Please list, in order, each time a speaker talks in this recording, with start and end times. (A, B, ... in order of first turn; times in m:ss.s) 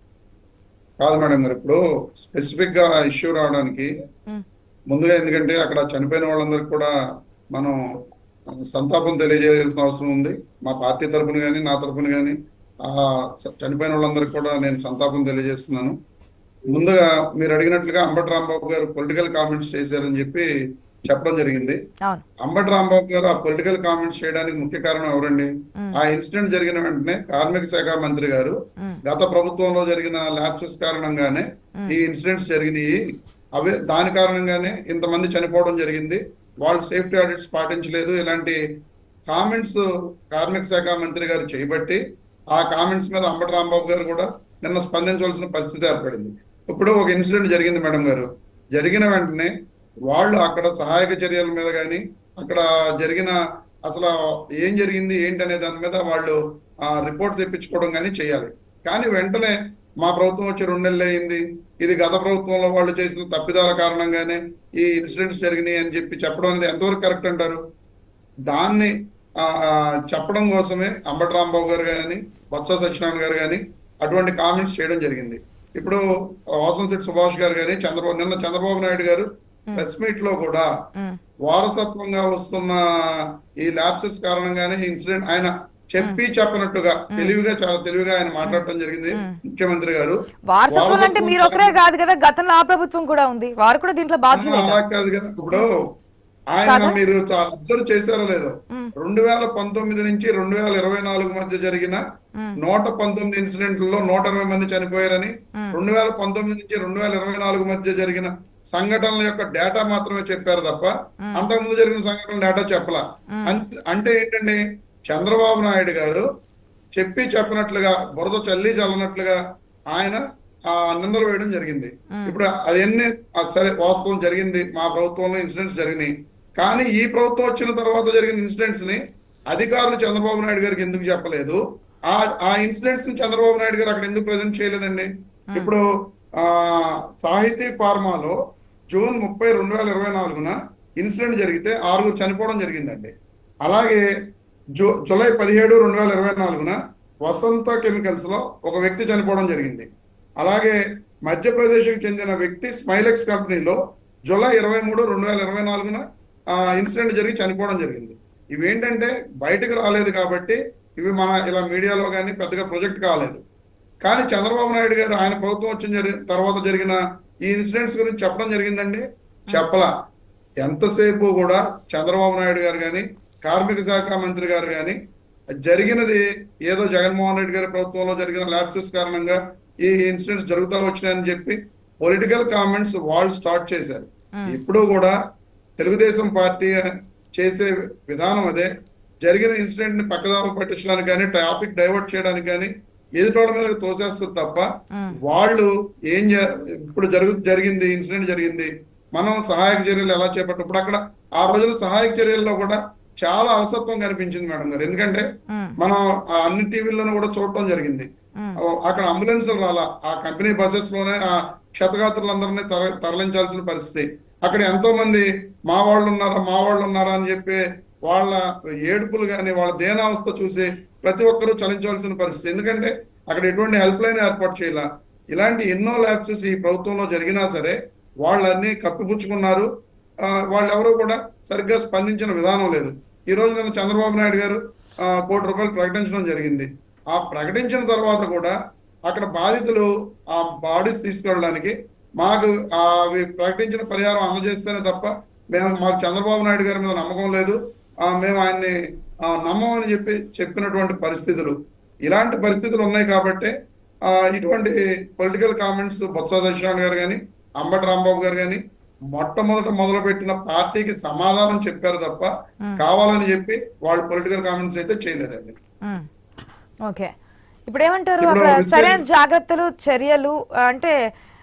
0:01.0-0:03.9 A
0:04.9-0:06.9 A
0:08.7-0:16.0 A
0:16.7-0:20.5 A
0:21.0-0:21.8 A
0:22.4-0:32.9 A
0:33.5-0:38.6 A
0:39.3-0:42.0 A
0:42.5-0:49.5 A
0:50.1-1:07.6 A
1:08.5-1:20.7 A
1:21.4-1:30.2 A
1:27.1-1:27.4 B
1:30.5-1:34.8 B
1:30.7-1:31.8 A
1:34.3-1:35.8 A
1:36.5-1:42.0 A
1:36.6-1:37.0 B
1:42.6-1:56.2 A
1:51.2-1:51.5 B
1:53.3-1:53.6 B
1:57.0-1:59.4 A
1:59.9-2:09.0 A
2:09.5-2:11.6 A
2:12.1-2:15.8 A
2:16.4-2:18.4 A
2:18.9-2:23.1 A
2:23.6-2:24.0 A
2:24.8-2:29.9 A
2:30.4-2:43.4 A
2:44.0-2:49.9 A
2:50.6-2:55.0 A
2:55.6-3:05.1 A
3:05.8-3:06.8 A
3:07.4-3:08.7 A
3:09.2-3:14.6 A
3:14.9-3:15.2 B
3:15.2-3:25.2 A
3:25.5-3:25.8 B
3:25.8-3:28.1 A
3:28.6-3:49.7 A
3:50.2-3:58.5 A
3:59.0-4:08.7 A
4:09.2-4:13.5 A
4:14.1-4:18.6 A
4:19.1-4:25.6 A
4:27.7-4:30.9 B
4:28.2-4:29.0 A